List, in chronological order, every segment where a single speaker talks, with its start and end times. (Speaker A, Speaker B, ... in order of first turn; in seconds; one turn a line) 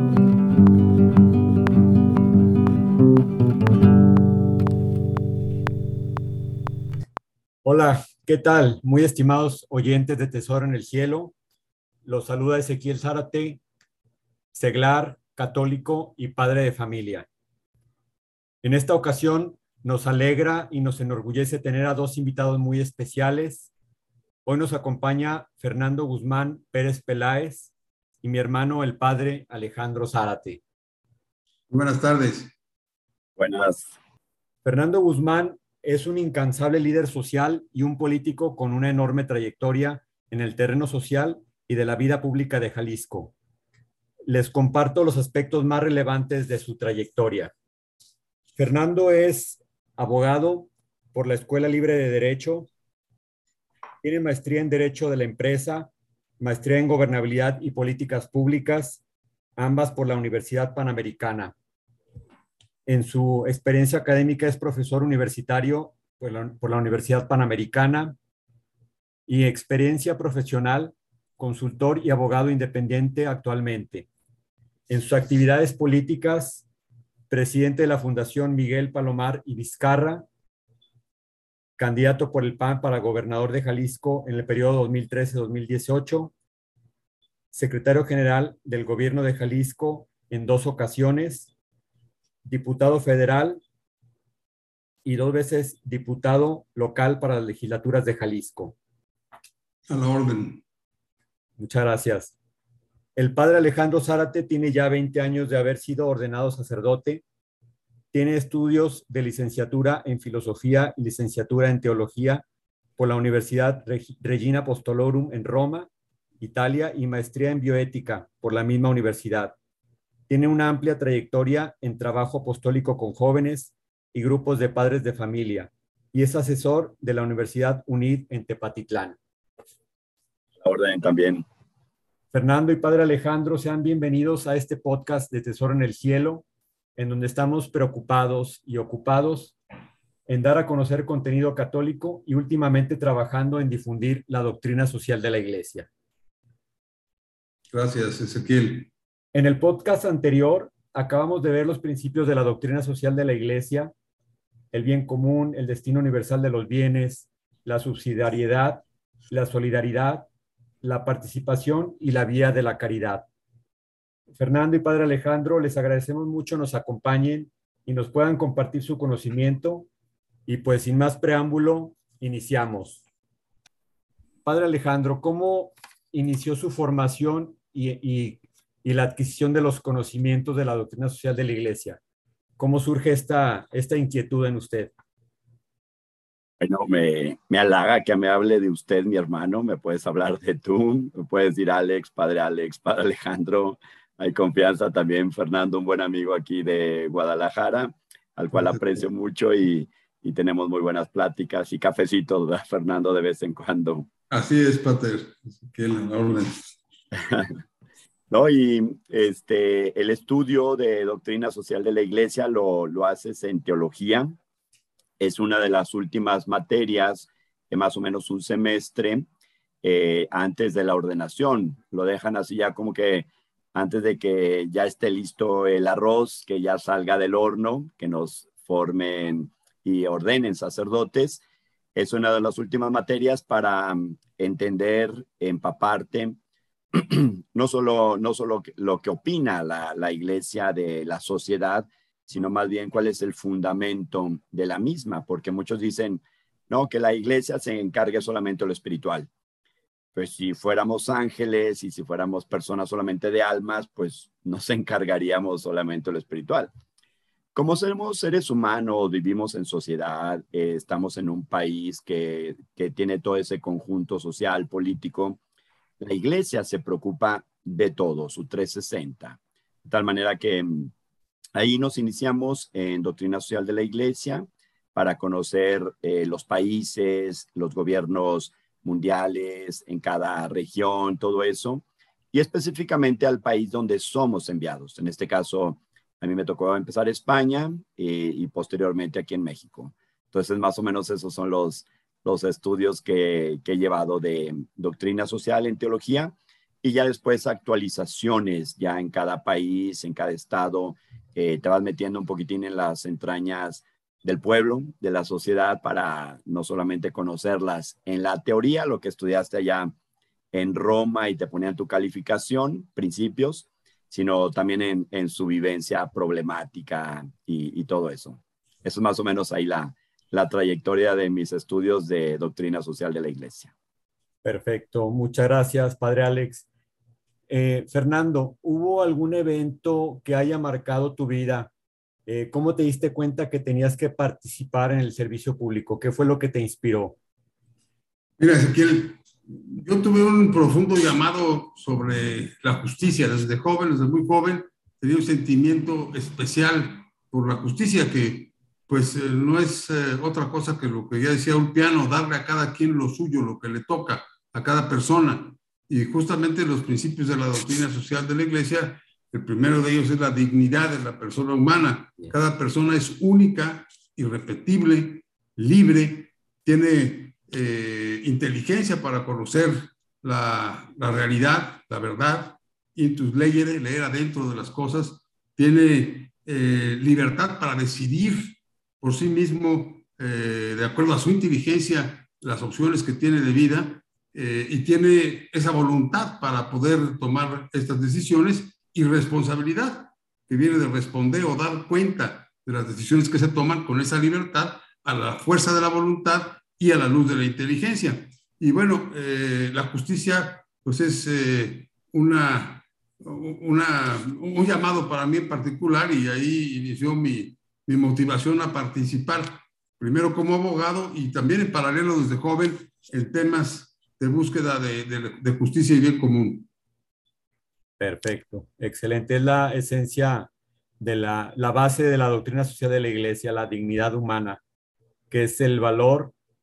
Speaker A: 7.6-11.3
Speaker A: 12.1-13.6
Speaker A: 14.5-17.3
Speaker A: 18.6-23.7
Speaker A: 24.4-27.7
Speaker A: 28.2-30.6
Speaker B: 31.7-32.5
Speaker C: 33.4-33.9
Speaker A: 34.6-43.3
Speaker A: 44.3-47.5
Speaker A: 48.6-52.7
Speaker A: 54.0-59.0
Speaker A: 59.6-61.5
Speaker A: 62.9-68.2
Speaker A: 69.3-74.1
Speaker A: 74.9-76.6
Speaker A: 77.3-80.2
Speaker A: 81.8-86.3
Speaker A: 87.5-91.5
Speaker A: 92.4-93.6
Speaker A: 95.0-98.8
Speaker B: 99.9-100.6
Speaker A: 101.6-102.3
Speaker A: 103.2-107.2
Speaker A: 108.1-112.4
Speaker A: 113.0-115.9
Speaker A: 116.4-119.5
Speaker A: 120.3-129.2
Speaker C: 130.6-131.4
Speaker A: 132.3-136.4
Speaker A: 137.0-139.6
Speaker A: 140.3-145.9
Speaker B: 147.7-148.9
Speaker A: 149.3-153.9
Speaker A: 154.7-160.3
Speaker A: 160.8-163.3
Speaker A: 164.3-169.9
Speaker A: 170.5-173.0
Speaker A: 174.4-182.0
Speaker A: 182.6-184.9
Speaker C: 186.6-204.1
Speaker B: 204.3-206.8
Speaker C: 207.1-207.5
Speaker C: 208.3-214.4
Speaker C: 215.2-219.3
Speaker C: 219.8-231.4
Speaker C: 231.9-236.4
Speaker C: 236.9-249.3
Speaker C: 250.2-256.7
Speaker C: 257.6-265.4
Speaker C: 266.0-270.9
Speaker C: 271.6-309.9
Speaker C: 310.5-323.7
Speaker A: 324.4-326.6
Speaker A: 327.5-331.7
Speaker A: 332.3-337.2
Speaker B: 338.4-416.7
Speaker A: 418.0-424.6
Speaker A: 425.3-426.3